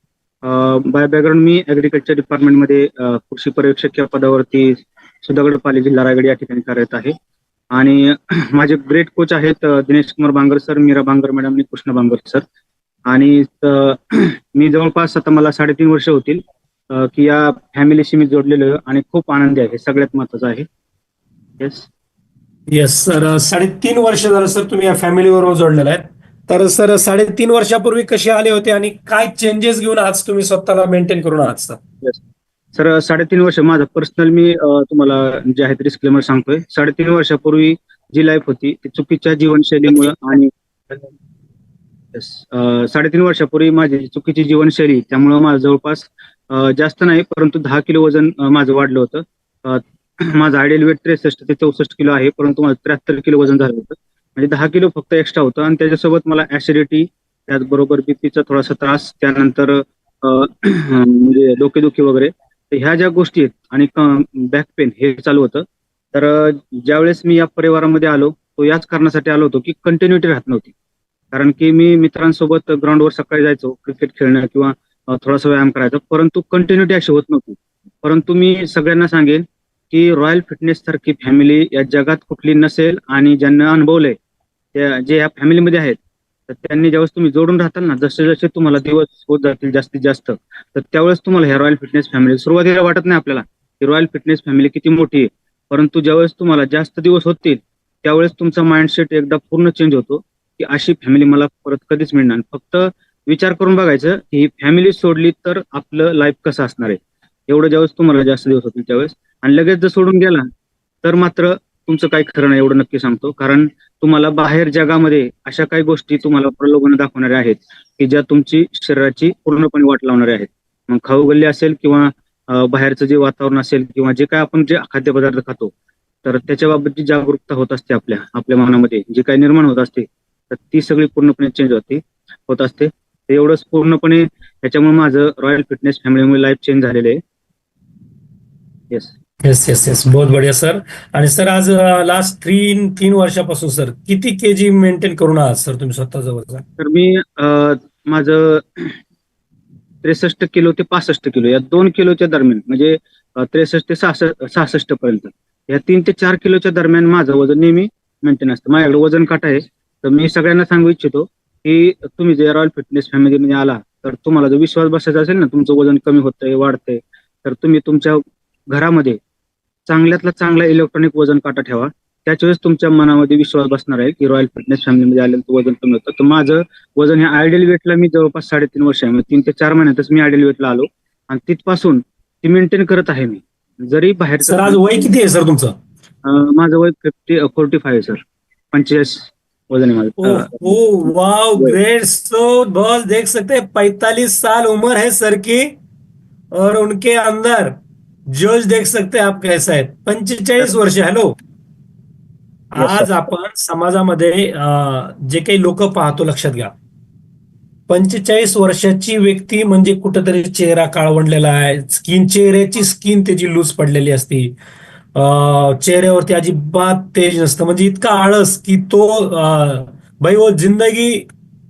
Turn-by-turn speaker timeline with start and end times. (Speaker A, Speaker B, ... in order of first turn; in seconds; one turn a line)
Speaker A: 0.4-7.1
Speaker A: 7.7-12.4
Speaker A: 13.1-20.6
Speaker A: 21.6-21.9
Speaker B: 22.7-31.8
Speaker A: 31.4-32.2
Speaker A: 32.7-40.5
Speaker A: 42.1-70.7
Speaker A: 71.3-84.1
Speaker A: 84.7-86.0
Speaker A: 86.5-110.5
Speaker A: 111.0-125.7
Speaker A: 126.2-137.2
Speaker B: 139.4-146.6
Speaker A: 146.8-149.0
Speaker A: 150.0-169.2
Speaker A: 169.8-185.1
Speaker B: 184.4-185.7
Speaker A: 186.2-188.2
Speaker A: 188.7-191.8
Speaker B: 190.2-195.7
Speaker B: 196.5-197.7
Speaker B: 198.3-201.3
Speaker B: 202.7-206.7
Speaker A: 202.8-203.1
Speaker B: 207.9-214.6
Speaker B: 215.1-221.2